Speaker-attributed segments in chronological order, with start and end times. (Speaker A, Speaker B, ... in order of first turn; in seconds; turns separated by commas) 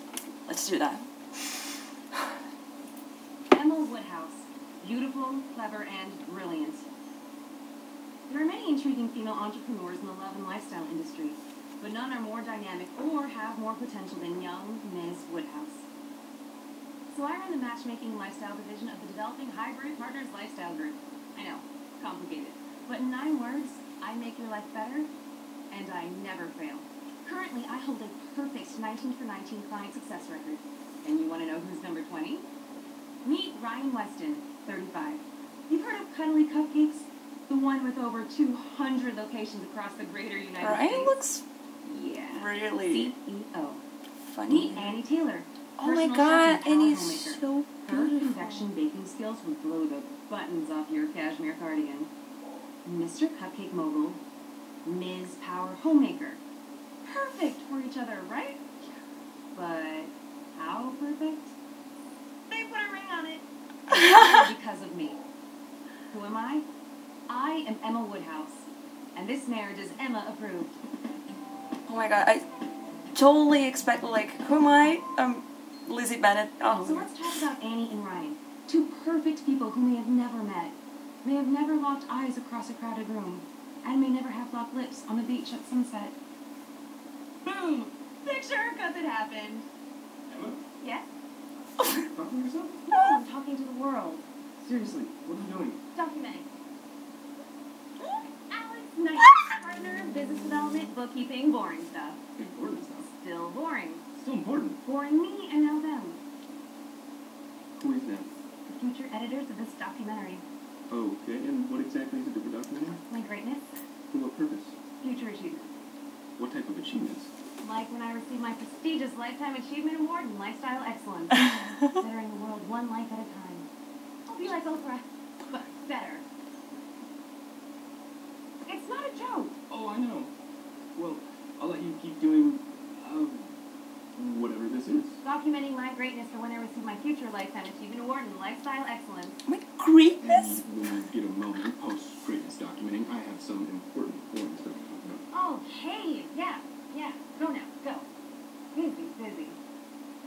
Speaker A: 0.5-1.5, Speaker B: 3.5-6.8, Speaker B: 8.3-15.9, Speaker B: 17.1-25.1, Speaker B: 25.7-32.5, Speaker B: 33.2-41.1, Speaker A: 40.6-41.4, Speaker B: 41.8-43.8, Speaker A: 42.3-43.1, Speaker A: 44.3-44.9, Speaker B: 44.5-52.1, Speaker A: 45.8-48.7, Speaker B: 52.8-54.2, Speaker B: 54.8-56.4, Speaker B: 57.0-58.6, Speaker B: 59.5-61.5, Speaker B: 62.5-65.2, Speaker A: 63.9-64.5, Speaker B: 66.1-66.7, Speaker B: 67.3-70.8, Speaker A: 71.9-72.4, Speaker A: 73.1-77.2, Speaker B: 76.8-86.2, Speaker B: 87.4-89.7, Speaker C: 90.3-90.6, Speaker B: 90.8-91.0, Speaker C: 92.0-92.9, Speaker B: 92.9-94.3, Speaker C: 94.6-95.8, Speaker B: 95.9-96.5, Speaker B: 98.3-102.2, Speaker C: 102.4-103.1, Speaker B: 103.0-104.0, Speaker C: 104.1-104.8, Speaker B: 104.8-106.2, Speaker C: 107.8-108.3, Speaker B: 108.7-110.4, Speaker C: 110.9-113.0, Speaker B: 113.1-113.8, Speaker C: 114.1-114.8, Speaker B: 115.0-115.7, Speaker C: 116.4-117.3, Speaker B: 117.6-123.7, Speaker B: 124.3-126.2, Speaker B: 128.7-129.6, Speaker C: 129.7-130.3, Speaker C: 130.9-133.5, Speaker C: 134.2-135.2, Speaker B: 135.2-139.4, Speaker A: 139.5-140.6, Speaker C: 140.2-145.2, Speaker B: 145.3-148.1, Speaker B: 148.7-149.6